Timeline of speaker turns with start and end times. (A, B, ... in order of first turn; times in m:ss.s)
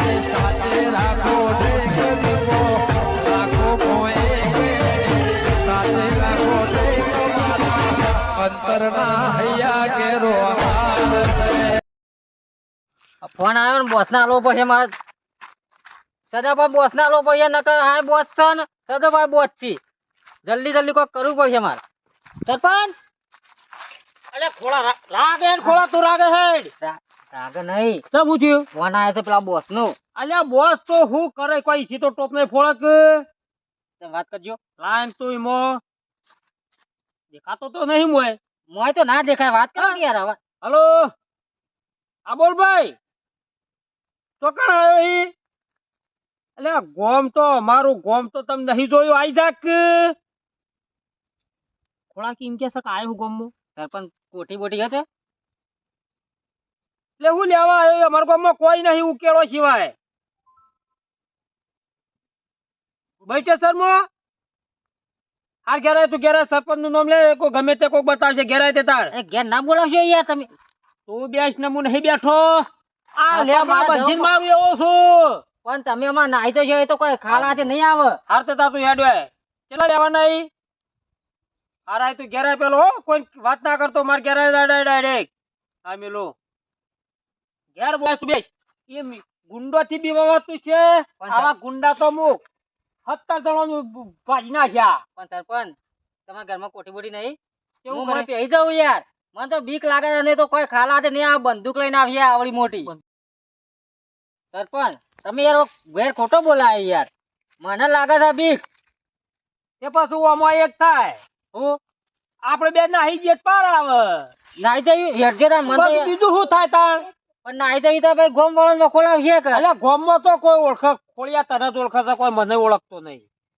0:00.3-0:02.4 A
0:03.6-0:04.3 A
0:05.8-0:07.0 A
0:08.6-0:10.8 A
0:13.2-0:14.9 B
0:16.3-0:19.8 B
0:20.4-0:21.8 B
0:22.4-0:23.0 B
0:24.3-0:26.7 C
0:26.8-0:28.0 B
0:28.1-0:28.7 C
0:28.7-0:30.0 B
0:30.2-0:33.2 C
0:34.0-0:34.6 B
0:34.8-0:35.8 C
0:37.3-0:38.4 C
0:38.7-0:40.4 B
0:40.6-0:41.1 C
0:42.3-0:43.0 C
0:44.4-0:45.3 C
0:46.6-0:50.2 C
0:52.1-0:53.5 C
0:53.8-0:55.1 B
0:57.2-0:59.9 C
1:03.2-1:04.1 C
1:05.7-1:09.1 C
1:09.1-1:10.5 B
1:11.1-1:12.7 C
1:13.2-1:15.4 C
1:13.3-1:14.3 B
1:15.6-1:18.2 B
1:17.3-1:17.6 C
1:18.3-1:20.5 C
1:21.9-1:25.3 C
1:25.8-1:26.3 C
1:27.8-1:32.4 C
1:31.2-1:31.5 B
1:33.1-1:35.0 C
1:35.2-1:35.8 B
1:36.3-1:37.4 B
1:37.8-1:38.3 C
1:37.9-1:42.9 B
1:44.5-1:47.1 B
1:47.6-1:48.6 B
1:49.8-1:51.2 C
1:51.5-1:51.8 B
1:52.4-1:54.3 C
1:54.6-1:56.1 B
1:55.6-1:57.1 C
1:57.4-1:59.6 B
1:59.5-2:03.2 C